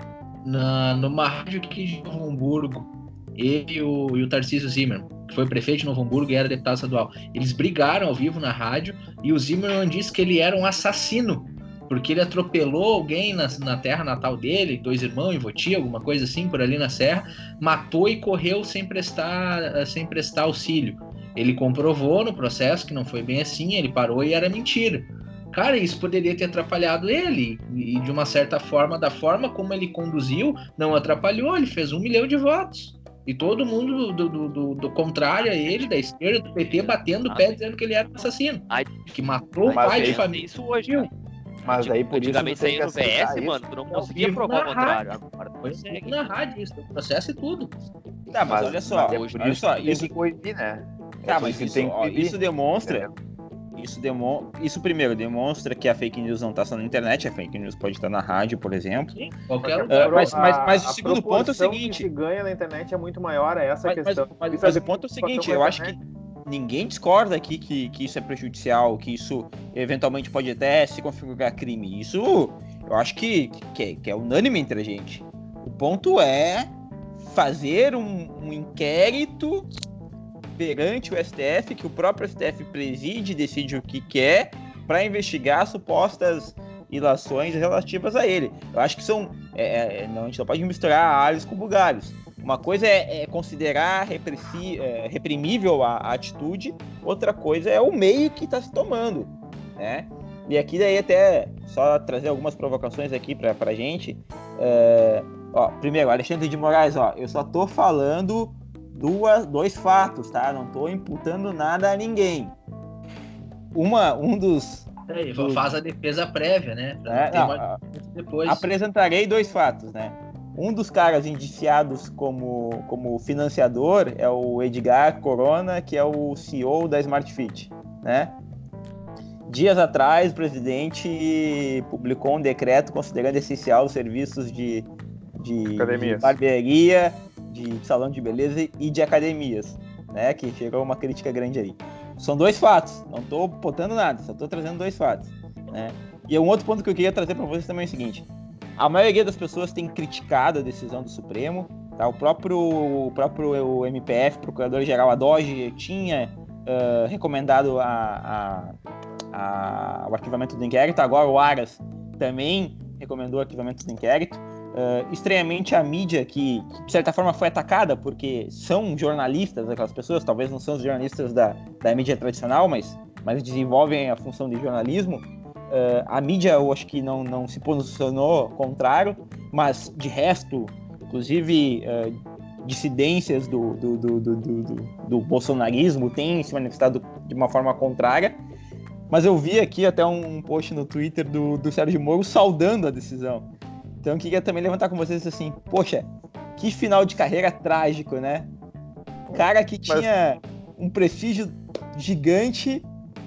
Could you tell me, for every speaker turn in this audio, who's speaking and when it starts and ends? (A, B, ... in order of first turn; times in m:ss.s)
0:00.4-0:41.1 A
0:36.7-0:37.6 B
0:38.7-0:39.1 B
0:39.6-0:41.1 B
0:39.7-0:40.2 C
0:41.6-0:43.6 C
0:41.6-0:46.2 B
0:43.9-0:47.7 A
0:48.3-0:50.1 D
0:48.4-0:53.1 C
0:48.5-0:49.7 B
0:51.2-0:53.1 D
0:53.8-0:59.1 D
0:59.1-1:00.4 A
0:59.6-1:05.9 E
0:59.9-1:02.1 D
1:03.8-1:19.7 D
1:20.6-1:52.5 D
1:53.7-1:55.7 D
1:55.1-1:58.6 A
1:57.0-1:57.8 D
1:58.4-2:08.3 D
2:09.5-2:28.2 D
2:15.7-2:16.4 E
2:28.8-2:38.8 D
2:39.3-3:08.4 D
3:09.1-3:13.5 D
3:14.0-3:18.5 D
3:19.3-3:20.1 C
3:19.3-3:22.9 D